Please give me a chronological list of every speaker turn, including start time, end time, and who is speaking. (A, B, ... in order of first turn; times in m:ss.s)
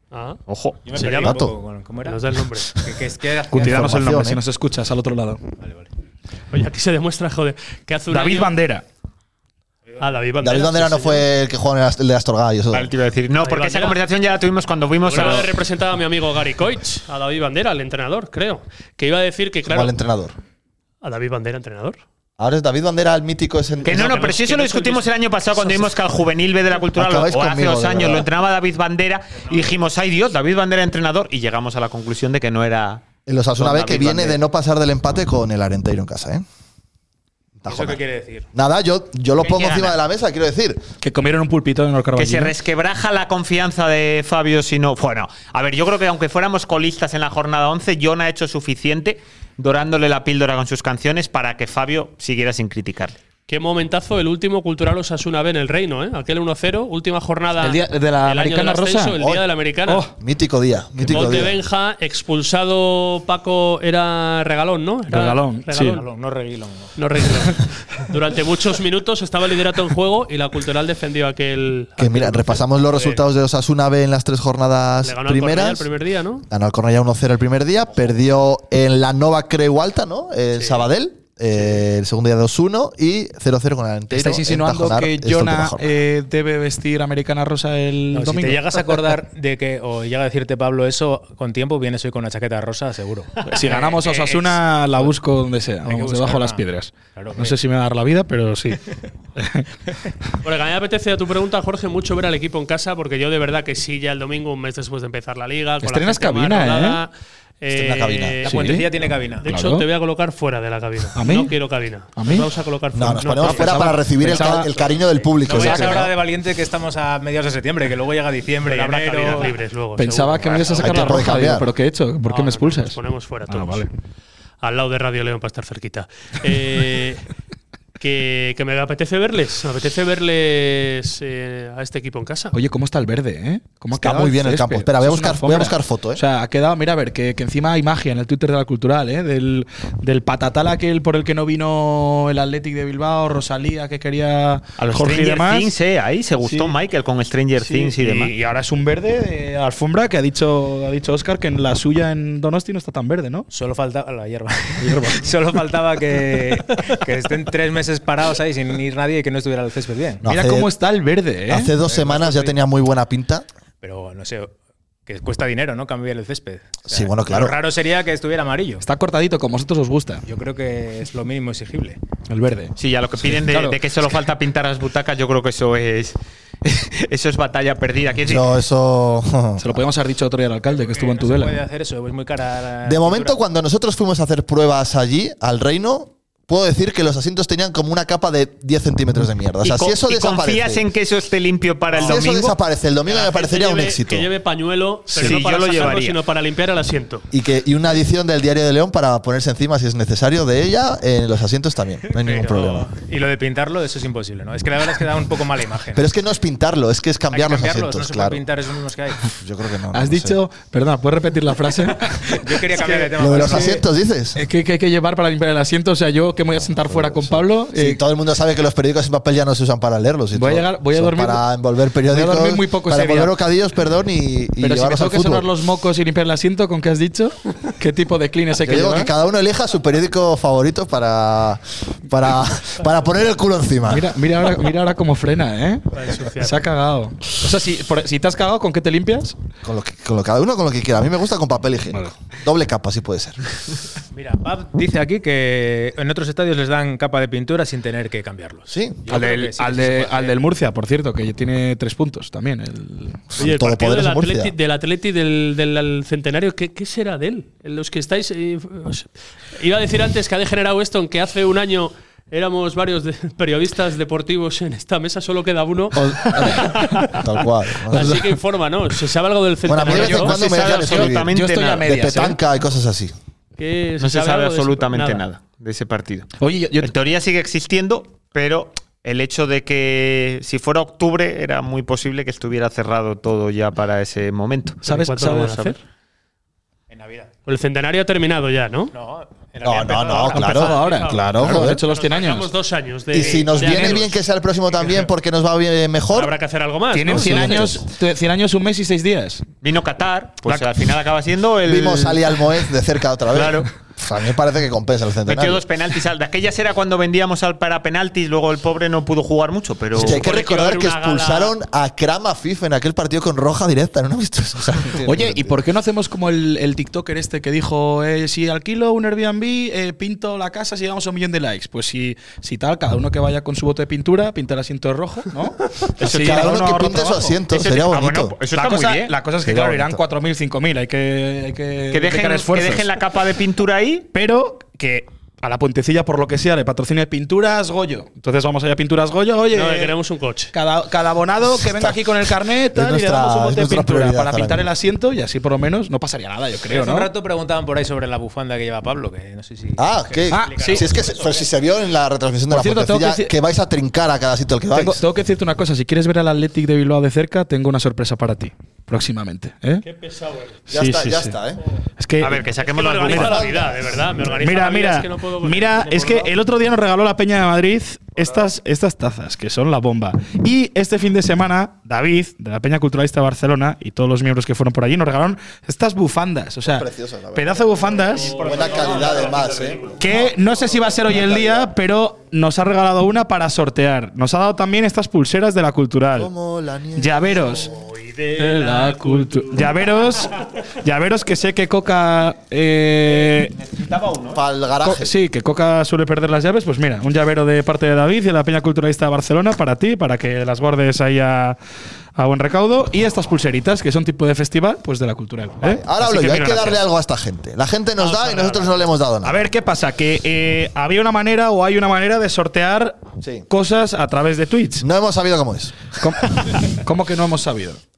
0:00.1-0:00.4 A
0:00.5-0:00.8 B
0:00.8-0:02.2 C
0:00.9-0:01.4 A
0:01.2-0:01.5 D
0:02.0-0:02.7 A
0:02.8-0:03.9 C
0:03.5-0:05.4 E
0:03.5-0:04.4 D
0:05.6-0:05.9 C
0:06.5-0:08.5 A
0:08.1-0:08.8 E
0:10.0-0:11.2 A
0:10.4-0:12.9 D
0:12.7-0:15.5 B
0:13.4-0:14.0 A
0:15.0-0:19.9 A
0:19.7-0:20.3 D
0:21.0-0:22.0 A
0:22.4-0:24.2 D
0:23.8-0:25.1 A
0:23.8-0:34.4 B
0:26.9-0:28.3 D
0:33.2-0:36.4 D
0:37.6-0:38.0 D
0:37.6-0:38.5 C
0:38.5-0:40.8 D
0:39.4-0:40.0 B
0:41.0-0:42.5 E
0:42.2-0:53.2 B
0:53.5-1:00.0 A
0:57.6-0:59.2 E
0:59.2-0:59.4 D
0:59.9-1:00.1 E
1:00.2-1:01.6 D
1:01.0-1:01.4 E
1:01.1-1:06.0 A
1:05.1-1:06.0 E
1:06.0-1:06.9 C
1:07.0-1:13.2 A
1:12.0-1:15.9 D
1:15.0-1:16.4 A
1:16.5-1:26.0 D
1:24.1-1:29.0 E
1:28.1-1:35.2 C
1:33.5-1:38.8 E
1:35.8-1:37.6 C
1:39.4-1:39.6 E
1:40.4-1:47.1 A
1:45.8-1:47.0 E
1:47.6-1:48.6 A
1:47.7-1:48.4 D
1:48.4-1:49.9 E
1:48.5-1:49.4 C
1:49.4-1:55.6 A
1:51.1-1:51.5 E
1:52.1-1:52.5 E
1:52.9-1:56.1 D
1:53.4-1:54.7 E
1:55.4-1:59.6 C
1:55.6-1:56.0 E
1:58.6-2:01.2 A
2:00.0-2:03.0 E
2:00.8-2:01.7 D
2:02.2-2:03.8 A
2:03.5-2:03.9 E
2:04.6-2:07.2 A
2:08.0-2:12.6 A
2:12.5-2:25.7 E
2:13.9-2:16.2 D
2:24.8-2:28.3 B
2:26.4-2:26.7 E
2:27.6-2:33.5 E
2:33.5-2:40.2 C
2:34.8-2:35.3 E
2:40.2-2:40.7 D
2:40.3-2:41.7 E
2:41.5-2:43.4 D
2:41.7-2:42.6 C
2:43.8-2:44.5 C
2:45.0-2:48.8 C
2:46.9-2:47.6 D
2:48.8-2:50.2 E
2:50.2-2:52.0 C
2:52.3-2:52.7 E
2:52.8-2:58.5 B
2:53.2-2:53.8 E
2:58.2-2:59.8 D
2:59.6-3:01.6 E
3:00.6-3:03.4 C
3:02.8-3:10.8 D
3:09.6-3:12.6 B
3:12.0-3:14.3 D
3:13.1-3:17.2 A
3:15.1-3:15.4 D
3:15.2-3:16.2 B
3:17.3-3:22.9 D
3:22.1-3:26.1 C
3:25.9-3:28.4 D
3:27.3-3:29.2 C
3:29.4-3:30.4 D
3:29.9-3:33.7 E
3:32.4-3:33.8 C
3:33.2-3:34.4 D
3:34.4-3:38.0 E
3:36.5-3:45.5 D
3:40.3-3:41.4 E
3:42.1-3:43.3 E
3:44.6-3:49.1 E
3:48.6-3:54.1 D
3:53.9-3:59.3 E
3:55.9-3:56.6 A
3:59.6-4:03.4 D
4:04.1-4:10.4 C
4:08.7-4:09.0 D
4:09.1-4:13.3 E
4:13.3-4:14.5 D
4:13.4-4:27.2 A
4:26.0-4:28.3 D
4:26.2-4:27.1 E
4:27.9-4:30.7 A
4:29.7-4:33.1 D
4:29.8-4:32.4 E
4:30.4-4:31.9 B
4:33.6-4:35.2 A
4:34.0-4:45.7 B
4:36.4-4:36.9 E
4:44.8-4:45.7 E
4:44.8-4:45.8 A
4:46.9-4:47.3 C
4:47.5-4:48.9 A
4:48.9-4:51.0 C
4:49.6-4:51.8 D
4:50.3-4:52.5 E
4:50.6-4:54.1 A
4:53.1-4:56.3 D
4:53.1-4:53.8 C
4:56.1-4:57.7 A
4:56.9-4:59.4 E
4:57.1-4:57.8 D
4:59.6-5:02.4 B
5:01.6-5:05.6 D
5:03.3-5:03.7 B
5:05.2-5:10.2 B
5:09.9-5:15.6 D
5:10.0-5:11.5 A
5:15.0-5:27.4 E
5:26.0-5:28.4 D
5:26.0-5:26.5 B
5:27.5-5:29.1 B
5:28.5-5:32.9 E
5:29.4-5:30.0 D
5:31.9-5:34.1 B
5:34.1-5:40.0 E
5:39.5-5:40.5 A
5:40.5-5:47.1 E
5:41.6-5:42.0 D
5:42.7-5:44.7 D
5:46.6-5:51.5 C
5:49.8-5:55.0 D
5:50.3-5:50.8 E
5:52.5-5:53.3 E
5:54.7-5:59.8 E
5:59.8-6:00.6 A
6:00.7-6:01.4 E
6:00.7-6:01.6 D
6:02.0-6:02.5 E
6:02.2-6:03.5 B
6:02.7-6:06.3 A
6:03.1-6:03.4 E
6:03.2-6:03.9 D
6:04.3-6:18.4 E
6:16.6-6:20.3 D
6:18.2-6:19.9 A
6:18.6-6:20.0 B
6:20.0-6:26.3 E
6:21.1-6:21.7 D
6:26.1-6:27.6 D
6:27.0-6:27.7 E
6:27.7-6:29.2 B
6:28.4-6:33.5 E
6:28.6-6:29.5 A
6:33.1-6:34.4 B
6:34.3-6:35.1 D
6:34.8-6:41.6 E
6:42.2-6:46.4 E
6:45.6-6:49.4 D
6:48.0-6:48.8 A
6:49.2-6:54.8 E
6:53.2-6:53.4 D
6:54.8-6:55.9 D
6:56.0-6:57.8 E